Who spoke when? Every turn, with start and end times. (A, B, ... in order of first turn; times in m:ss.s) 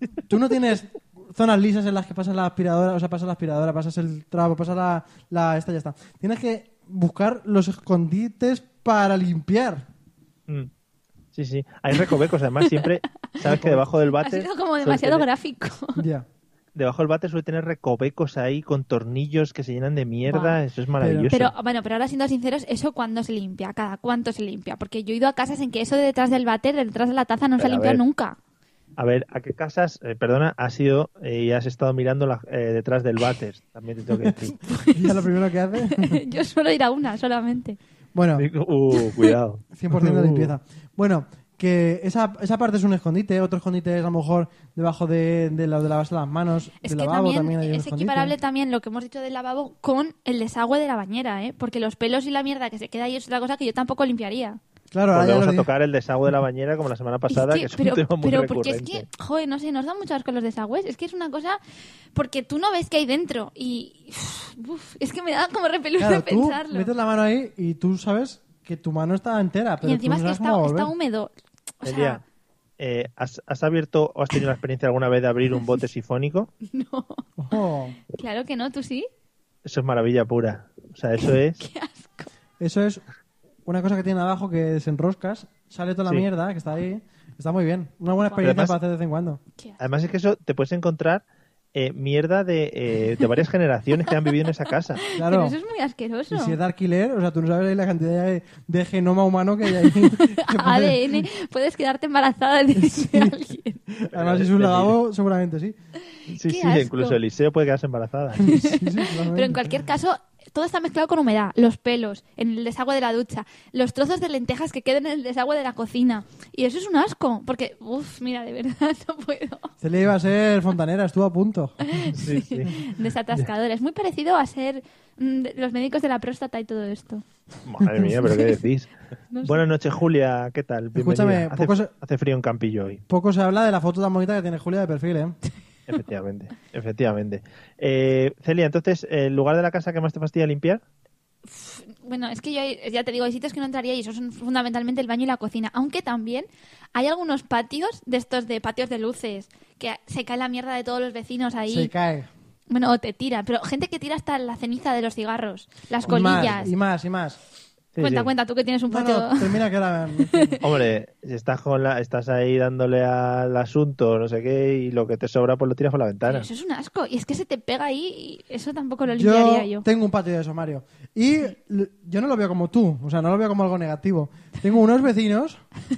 0:00.3-0:09.9 A
0:11.4-0:15.2 B
0:13.4-0:13.8 A
0:14.1-0:16.0 C
0:16.0-0:16.3 A
0:16.8-0:21.5 B
0:20.3-0:20.6 C
0:21.0-0:21.3 A
0:21.3-0:28.4 C
0:27.6-0:28.0 B
0:29.0-0:34.6 B
0:34.6-0:35.1 C
0:34.9-0:36.2 A
0:35.8-0:37.8 C
0:38.1-0:38.5 A
0:38.4-0:40.6 B
0:38.9-0:39.3 C
0:39.8-0:48.3 A
0:46.8-0:54.6 C
0:54.9-0:55.7 A
0:55.1-0:59.0 B
0:57.3-1:01.6 C
1:02.2-1:06.9 C
1:06.0-1:10.9 A
1:09.8-1:12.2 C
1:11.8-1:12.2 B
1:12.8-1:16.5 B
1:16.7-1:17.6 C
1:17.4-1:18.0 A
1:18.1-1:19.1 C
1:19.6-1:21.6 B
1:21.2-1:22.3 C
1:22.6-1:23.0 A
1:23.7-1:29.4 A
1:28.4-1:28.8 B
1:29.8-1:31.2 B
1:31.7-1:35.0 B
1:35.1-1:36.6 C
1:35.2-1:35.6 A
1:36.3-1:41.2 A
1:39.8-1:43.8 C
1:42.8-1:45.8 A
1:44.1-1:45.0 B
1:46.3-1:48.5 B
1:46.4-1:47.2 C
1:48.4-1:49.7 A
1:48.5-1:59.7 C
1:59.8-2:02.0 A
2:01.9-2:07.2 C
2:02.1-2:02.8 B
2:07.6-2:08.9 B
2:09.3-2:09.6 C
2:09.4-2:13.0 B
2:11.0-2:11.9 A
2:13.1-2:15.4 A
2:15.9-2:20.8 B
2:21.5-2:31.9 C
2:31.7-2:32.3 A
2:32.7-2:36.7 C
2:36.0-2:36.7 B
2:36.1-2:37.4 A
2:38.0-2:38.3 B
2:38.0-2:39.6 C
2:38.9-2:40.6 A
2:40.3-2:40.6 C
2:40.6-2:46.5 B
2:46.2-2:49.9 C
2:49.1-2:55.6 A